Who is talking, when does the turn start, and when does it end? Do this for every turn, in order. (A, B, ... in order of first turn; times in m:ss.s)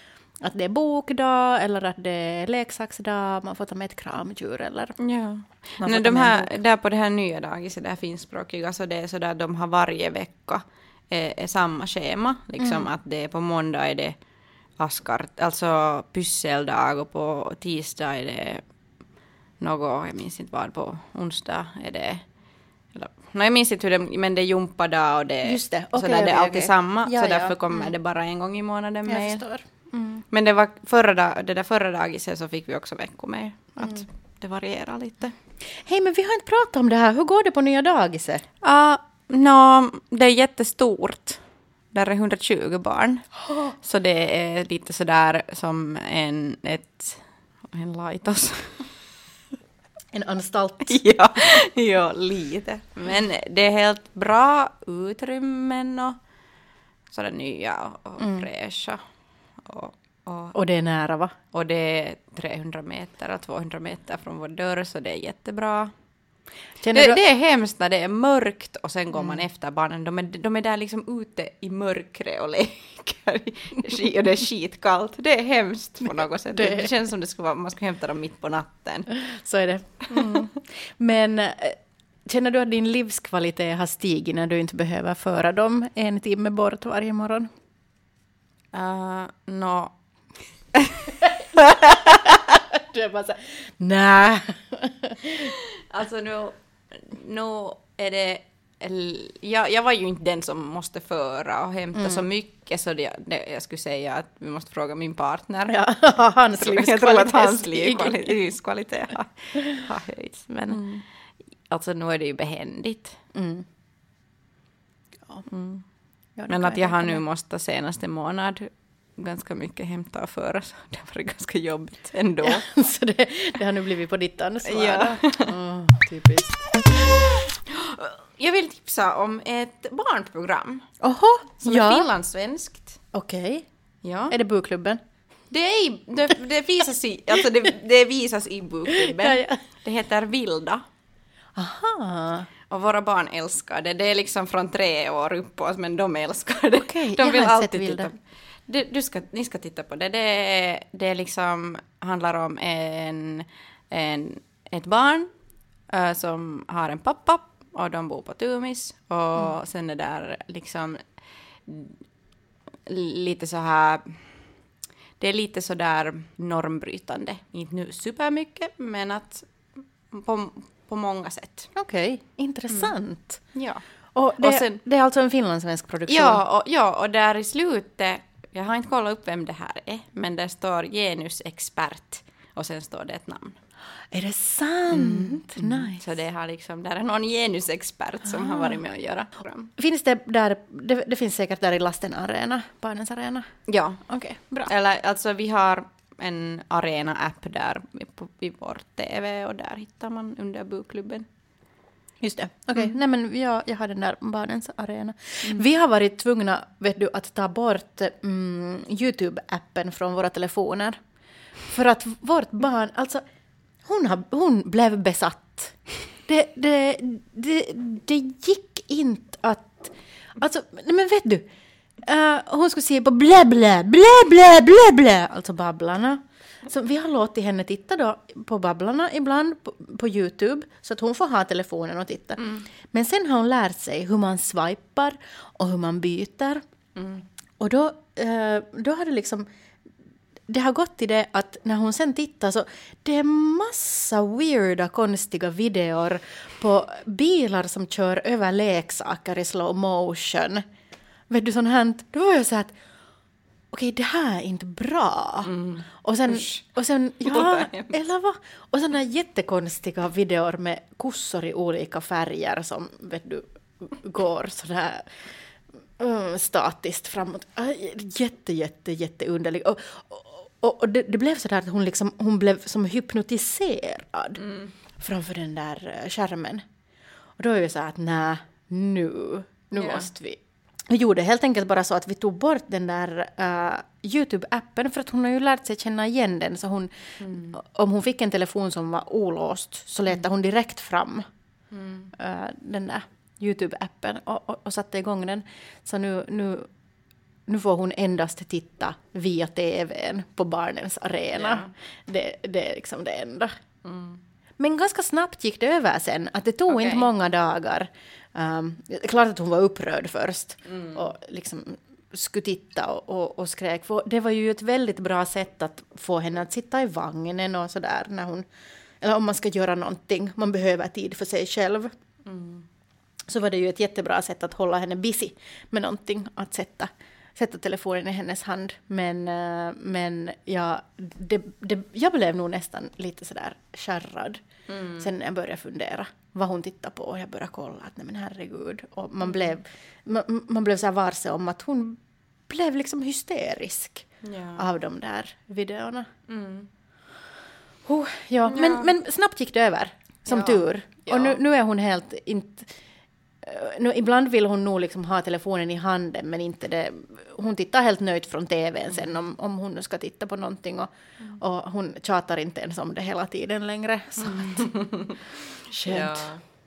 0:00.4-0:05.0 A
0:05.0-0:14.2 B
0:05.8-0:06.6 A
0:12.6-0:12.9 A
0:14.8-0:18.6 B
0:19.6-0:22.2 B
0:22.9-0:29.4 B
0:25.4-0:27.9 A
0:29.1-0:30.2 A
0:30.3-0:35.4 B
0:35.8-0:38.4 A
0:38.6-0:41.4 B
0:41.9-0:43.2 B
0:43.8-0:48.9 B
0:50.1-0:51.0 A
0:50.8-0:56.2 B
0:57.1-0:59.0 B
0:58.2-0:58.5 A
0:59.6-1:00.6 B
1:00.5-1:01.4 A
1:01.5-1:05.9 B
1:06.8-1:07.2 A
1:06.9-1:19.1 B
1:16.1-1:16.9 A
1:19.1-1:27.5 A
1:28.7-1:30.0 B
1:30.7-1:32.4 B
1:31.2-1:35.6 A
1:35.4-1:45.8 B
1:42.0-1:42.2 A
1:45.7-1:48.4 A
1:46.5-1:51.0 B
1:50.5-1:50.8 A
1:51.7-1:53.2 B
1:53.3-1:53.6 A
1:55.5-1:55.8 B
1:56.4-1:57.2 A
1:56.5-2:02.6 B
2:02.4-2:06.8 A
2:04.6-2:05.6 B
2:07.7-2:10.9 B
2:11.0-2:12.1 A
2:11.6-2:13.0 B
2:13.1-2:13.7 A
2:14.0-2:14.4 B
2:14.3-2:15.0 A
2:15.5-2:20.8 B
2:18.9-2:19.6 A
2:21.6-2:22.5 A
2:22.7-2:35.3 B
2:26.8-2:28.1 A
2:35.9-2:41.1 B
2:41.7-2:42.0 B
2:42.9-2:44.3 B
2:45.2-2:51.7 B
2:51.7-2:53.4 A
2:52.7-2:53.0 B
2:53.5-2:53.8 B
2:54.2-2:56.4 A
2:54.4-2:54.8 B
2:56.1-3:03.6 B
3:04.1-3:06.0 A
3:04.9-3:09.7 B
3:08.5-3:08.8 A
3:09.8-3:13.5 A
3:13.7-3:14.0 B
3:14.1-3:14.7 A
3:14.6-3:21.3 B
3:22.2-3:31.0 A
3:31.7-3:33.2 A
3:33.8-3:41.5 A
3:42.0-3:56.6 A
3:52.4-3:52.7 B
3:57.0-3:57.2 B
3:57.6-3:59.5 A
4:00.5-4:10.6 A
4:11.3-4:12.8 A
4:13.7-4:25.3 A
4:15.4-4:16.6 B
4:17.2-4:18.0 B
4:26.0-4:36.6 A
4:34.4-4:34.7 B
4:37.4-4:51.2 A
4:39.8-4:40.1 B
4:47.2-4:47.6 B
4:51.7-4:52.1 B
4:52.1-4:56.7 A
4:57.5-5:03.5 A
5:01.4-5:01.7 B
5:03.8-5:04.2 B
5:04.6-5:18.5 A
5:06.7-5:07.1 B
5:10.7-5:11.0 B
5:19.0-5:21.9 A
5:22.3-5:22.6 B
5:23.3-5:34.4 A
5:34.7-5:35.1 B
5:35.0-5:46.1 A
5:39.2-5:39.5 B
5:44.2-5:44.6 B
5:46.3-5:46.7 B
5:47.9-5:52.7 A
5:48.4-5:48.9 B
5:50.3-5:51.4 B
5:53.4-6:04.8 A
6:04.2-6:06.4 B
6:05.7-6:06.3 A